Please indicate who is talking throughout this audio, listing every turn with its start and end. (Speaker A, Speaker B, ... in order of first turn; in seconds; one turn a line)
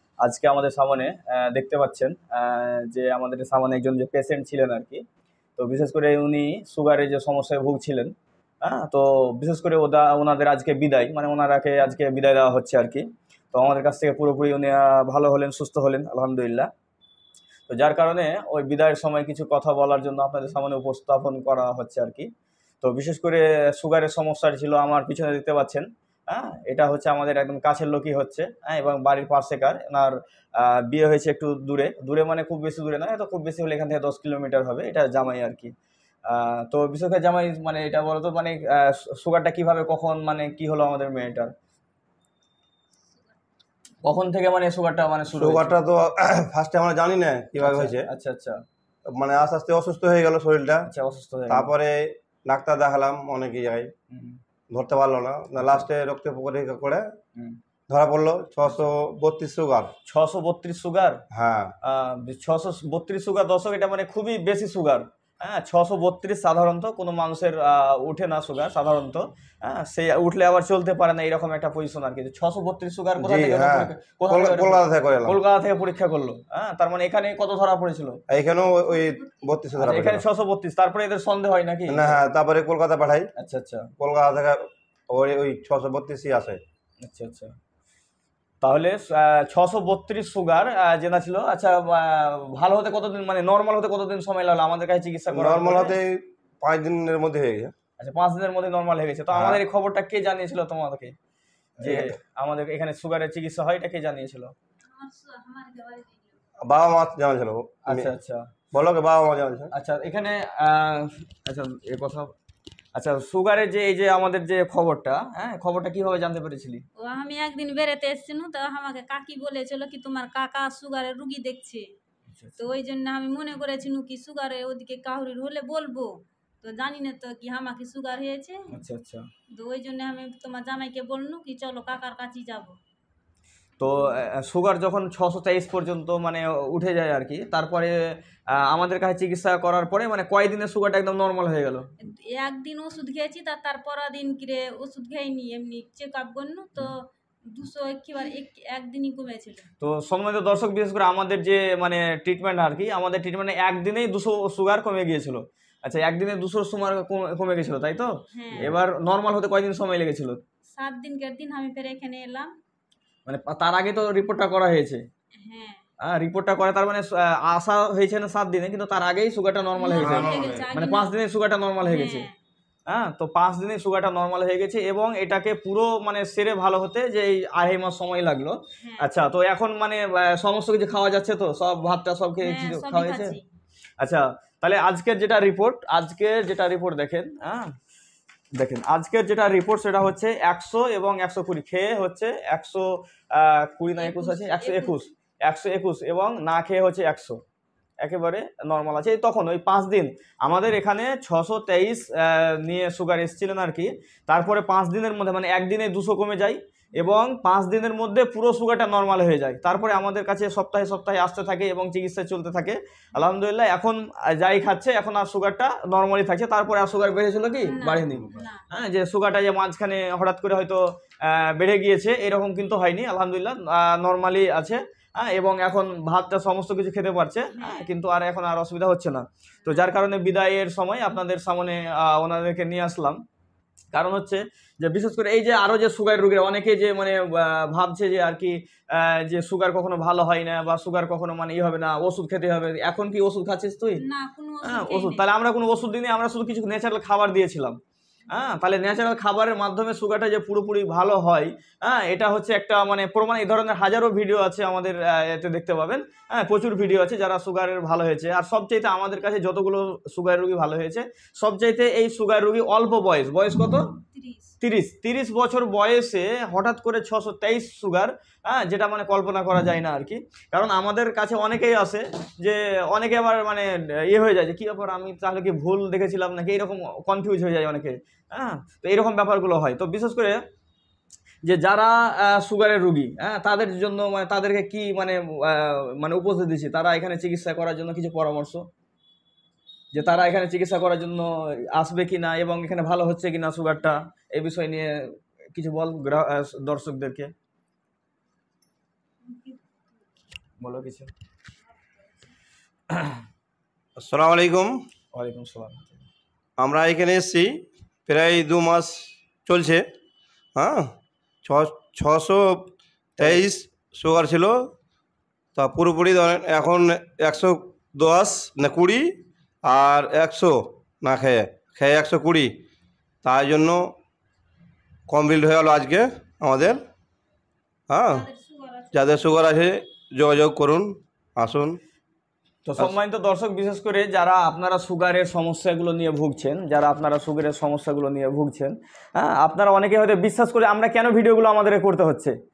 Speaker A: 0.2-5.0
Speaker A: 5.6-16.7
Speaker A: 17.7-22.3
Speaker A: 22.8-35.7
Speaker A: 36.2-41.5
Speaker A: 44.0-45.8
Speaker B: 45.4-48.1
Speaker A: 47.6-48.6
Speaker B: 49.1-50.9
Speaker A: 50.9-51.7
Speaker B: 51.5-53.9
Speaker A: 54.1-54.4
Speaker B: 54.7-57.0
Speaker B: 57.9-59.9
Speaker A: 60.0-61.2
Speaker B: 61.3-61.7
Speaker A: 61.8-78.2
Speaker B: 73.2-75.4
Speaker B: 78.3-80.2
Speaker C: 78.9-79.4
Speaker A: 79.8-82.2
Speaker B: 81.9-83.3
Speaker A: 83.3-83.9
Speaker B: 84.0-86.6
Speaker A: 87.0-87.5
Speaker A: 88.6-96.0
Speaker B: 95.3-97.7
Speaker A: 98.0-101.1
Speaker B: 99.3-99.6
Speaker B: 101.8-102.1
Speaker A: 101.8-104.5
Speaker C: 104.8-106.4
Speaker B: 106.6-108.1
Speaker A: 107.8-108.5
Speaker B: 108.7-109.7
Speaker A: 109.7-112.3
Speaker A: 112.9-116.8
Speaker C: 117.0-121.9
Speaker A: 122.3-122.7
Speaker C: 122.6-128.7
Speaker A: 128.7-129.3
Speaker C: 129.5-132.8
Speaker A: 133.8-137.9
Speaker A: 138.5-141.9
Speaker C: 142.0-149.7
Speaker A: 149.8-160.4
Speaker C: 158.3-158.7
Speaker C: 160.8-162.5
Speaker A: 163.2-165.0
Speaker C: 165.4-165.8
Speaker A: 166.0-172.3
Speaker C: 169.8-171.1
Speaker B: 170.0-170.7
Speaker C: 171.8-172.3
Speaker A: 172.9-183.4
Speaker C: 178.8-179.1
Speaker C: 182.4-183.4
Speaker A: 184.0-187.7
Speaker A: 188.6-197.4
Speaker C: 194.0-195.0
Speaker A: 198.0-233.2
Speaker C: 217.6-218.6
Speaker C: 227.5-227.9
Speaker C: 229.6-229.9
Speaker A: 233.9-244.0
Speaker C: 244.0-245.2
Speaker A: 244.6-247.8
Speaker A: 248.3-263.9
Speaker C: 264.1-264.5
Speaker A: 264.6-280.4
Speaker A: 281.4-288.7
Speaker A: 289.9-297.3
Speaker C: 299.2-299.8
Speaker A: 300.6-301.1
Speaker A: 302.9-303.2
Speaker B: 304.0-304.8
Speaker A: 305.1-306.0
Speaker B: 306.6-307.5
Speaker B: 308.1-309.8
Speaker B: 310.6-310.9
Speaker B: 311.4-312.7
Speaker A: 313.2-313.4
Speaker B: 313.2-314.7
Speaker B: 315.6-319.1
Speaker B: 319.6-322.5
Speaker B: 323.2-323.9
Speaker B: 325.1-326.8
Speaker B: 327.9-328.3
Speaker C: 328.1-329.4
Speaker B: 328.9-331.8
Speaker A: 332.6-342.3